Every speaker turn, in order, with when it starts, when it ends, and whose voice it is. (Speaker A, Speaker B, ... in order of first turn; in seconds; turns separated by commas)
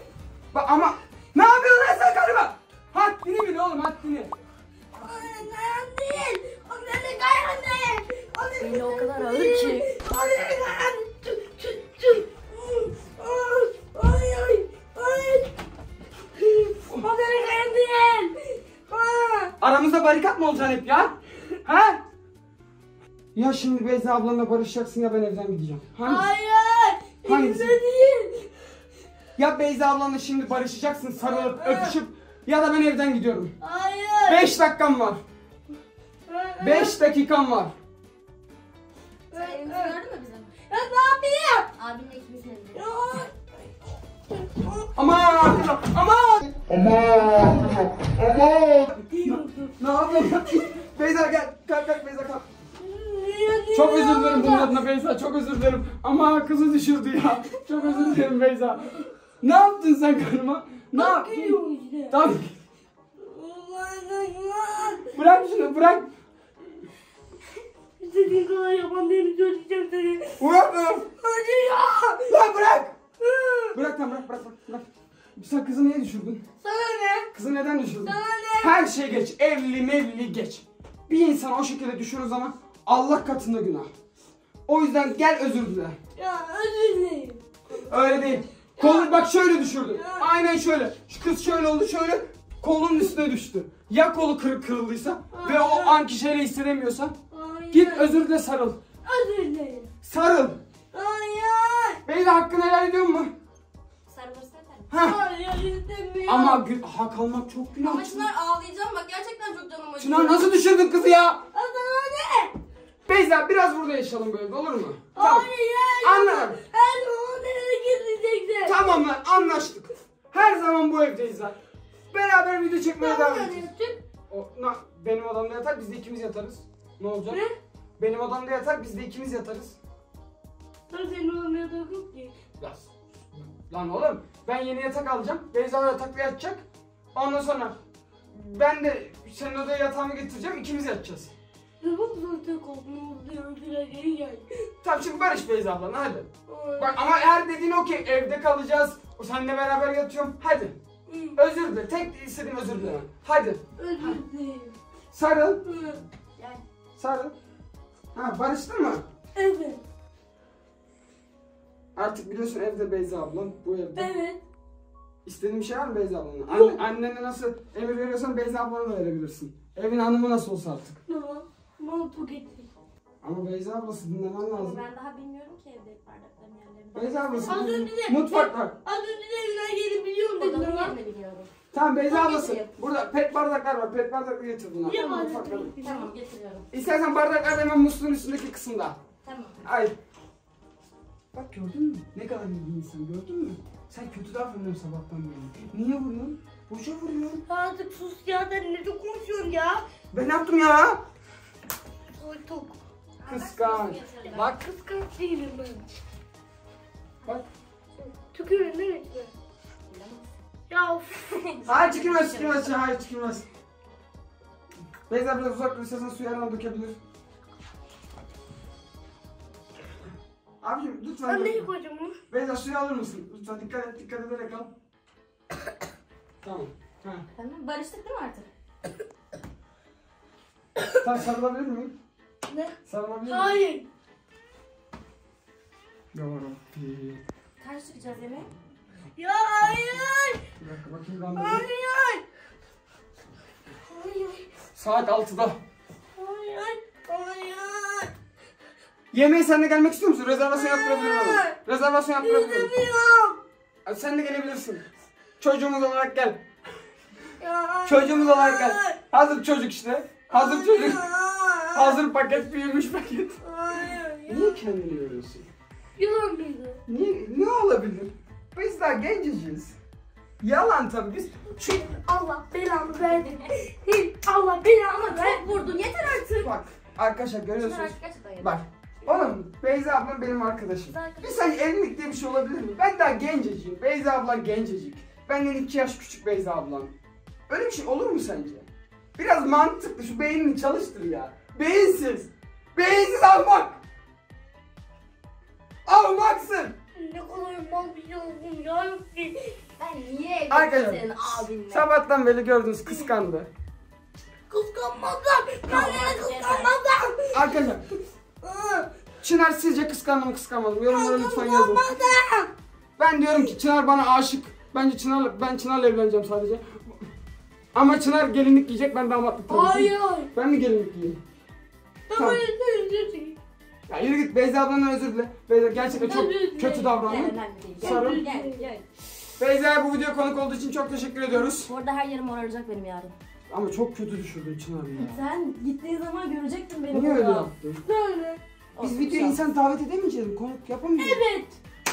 Speaker A: 0.5-4.3, Speaker B: 4.9-15.6, Speaker C: 8.6-9.9, Speaker B: 16.4-19.6, Speaker A: 19.6-22.0, Speaker A: 23.4-26.3, Speaker B: 26.0-28.5, Speaker A: 27.2-27.8, Speaker A: 29.4-33.5, Speaker B: 31.2-32.0, Speaker B: 33.6-34.5, Speaker A: 34.2-35.2, Speaker B: 36.3-37.0, Speaker A: 36.6-37.7, Speaker B: 39.3-40.0, Speaker C: 39.3-40.5, Speaker B: 40.7-41.7, Speaker C: 41.8-42.9, Speaker B: 42.7-43.7, Speaker B: 44.3-45.7, Speaker A: 45.0-46.6, Speaker A: 48.5-52.5, Speaker B: 49.1-50.7, Speaker B: 52.8-54.8, Speaker A: 53.7-61.6, Speaker B: 57.7-58.3, Speaker B: 60.9-62.2, Speaker A: 62.1-62.5, Speaker B: 63.2-65.1, Speaker A: 65.1-66.1, Speaker B: 68.0-70.4, Speaker A: 70.4-71.1, Speaker B: 71.2-72.3, Speaker A: 72.2-73.0, Speaker B: 73.2-73.8, Speaker A: 73.7-76.4, Speaker B: 76.6-77.3, Speaker A: 77.3-83.9, Speaker B: 78.0-78.8, Speaker A: 84.7-86.0, Speaker B: 86.2-90.3, Speaker A: 87.8-97.1, Speaker B: 95.3-96.0, Speaker B: 97.3-98.2, Speaker A: 97.7-98.8, Speaker B: 99.0-99.9, Speaker A: 100.0-100.6, Speaker B: 100.9-102.0, Speaker A: 102.1-103.3, Speaker C: 104.1-104.9, Speaker A: 104.9-105.2, Speaker B: 105.0-106.6, Speaker A: 106.3-108.3, Speaker C: 107.8-110.8, Speaker A: 110.0-111.4, Speaker B: 111.5-112.6, Speaker A: 113.1-115.5, Speaker B: 115.2-119.6, Speaker A: 116.0-116.6, Speaker A: 118.7-121.6, Speaker A: 122.1-123.7, Speaker B: 123.0-124.0, Speaker A: 124.3-127.5, Speaker B: 127.3-127.5, Speaker A: 128.0-129.8, Speaker B: 130.9-132.3, Speaker A: 132.6-136.6, Speaker A: 137.1-137.8, Speaker A: 138.3-141.3, Speaker B: 141.8-144.5, Speaker A: 144.8-150.8, Speaker B: 146.5-147.0, Speaker B: 151.1-151.4, Speaker A: 151.3-153.6, Speaker B: 153.8-154.8, Speaker A: 155.1-155.6, Speaker B: 155.7-156.0, Speaker C: 156.4-156.6, Speaker A: 157.0-157.3, Speaker A: 158.1-159.0, Speaker B: 159.4-159.8, Speaker A: 162.0-164.2, Speaker B: 163.9-164.4, Speaker A: 165.3-171.0, Speaker B: 166.5-166.8, Speaker B: 171.1-172.7, Speaker A: 173.2-174.8, Speaker C: 174.5-177.8, Speaker A: 176.9-178.8, Speaker B: 177.4-180.9, Speaker C: 180.4-181.5, Speaker A: 181.7-185.8, Speaker C: 182.1-182.8, Speaker B: 184.8-186.1, Speaker C: 185.8-186.7, Speaker A: 186.7-189.0, Speaker C: 189.2-189.7, Speaker A: 189.6-190.0, Speaker A: 191.3-197.4, Speaker B: 197.5-199.8, Speaker A: 200.1-201.0, Speaker B: 202.2-202.8, Speaker C: 203.2-204.6, Speaker A: 203.3-204.0, Speaker B: 204.0-206.0, Speaker B: 208.0-209.3, Speaker C: 209.9-210.3, Speaker B: 210.7-211.3, Speaker C: 211.3-212.8, Speaker A: 211.7-213.5, Speaker A: 215.1-217.0, Speaker A: 220.6-221.7, Speaker B: 221.3-222.2, Speaker A: 222.3-224.7, Speaker A: 226.4-227.3, Speaker C: 227.4-228.5, Speaker A: 231.0-231.9, Speaker B: 232.5-232.8, Speaker A: 232.9-233.6, Speaker B: 233.3-233.9, Speaker A: 236.1-237.2, Speaker C: 237.6-238.5, Speaker B: 239.2-240.4, Speaker C: 239.7-240.0, Speaker A: 240.6-241.7, Speaker B: 241.4-242.2, Speaker B: 243.9-244.5, Speaker A: 244.8-245.6, Speaker B: 246.2-248.1, Speaker A: 249.1-252.7, Speaker B: 250.5-251.6, Speaker B: 252.2-253.4, Speaker A: 253.8-254.8, Speaker A: 255.4-256.4, Speaker B: 257.4-259.0, Speaker A: 257.9-261.0, Speaker B: 260.3-262.0, Speaker A: 261.7-263.4, Speaker B: 263.4-264.7, Speaker A: 264.3-265.5, Speaker B: 266.0-266.8, Speaker A: 266.9-269.8, Speaker A: 270.4-271.6, Speaker B: 271.6-275.7, Speaker C: 274.9-276.5, Speaker A: 276.4-286.9, Speaker C: 277.6-279.3, Speaker C: 280.9-281.5, Speaker A: 287.5-288.7, Speaker A: 289.2-293.8, Speaker A: 295.9-296.8, Speaker B: 297.0-299.6, Speaker C: 299.8-302.0, Speaker A: 300.5-303.5, Speaker B: 304.5-307.6, Speaker C: 305.7-306.7, Speaker A: 307.3-307.9, Speaker B: 308.4-308.9, Speaker A: 309.2-312.2, Speaker B: 310.9-312.5, Speaker A: 313.0-317.0, Speaker A: 317.7-321.2, Speaker B: 319.5-320.3, Speaker B: 322.1-323.4, Speaker A: 322.1-322.4, Speaker A: 323.9-328.2, Speaker B: 325.9-327.1, Speaker C: 327.1-328.8, Speaker B: 327.8-328.7, Speaker A: 329.4-331.7, Speaker C: 331.3-333.1, Speaker A: 333.5-335.3, Speaker C: 334.9-337.5, Speaker A: 336.9-337.8, Speaker B: 337.9-338.4, Speaker C: 338.8-339.5, Speaker A: 338.8-341.2, Speaker B: 341.0-341.6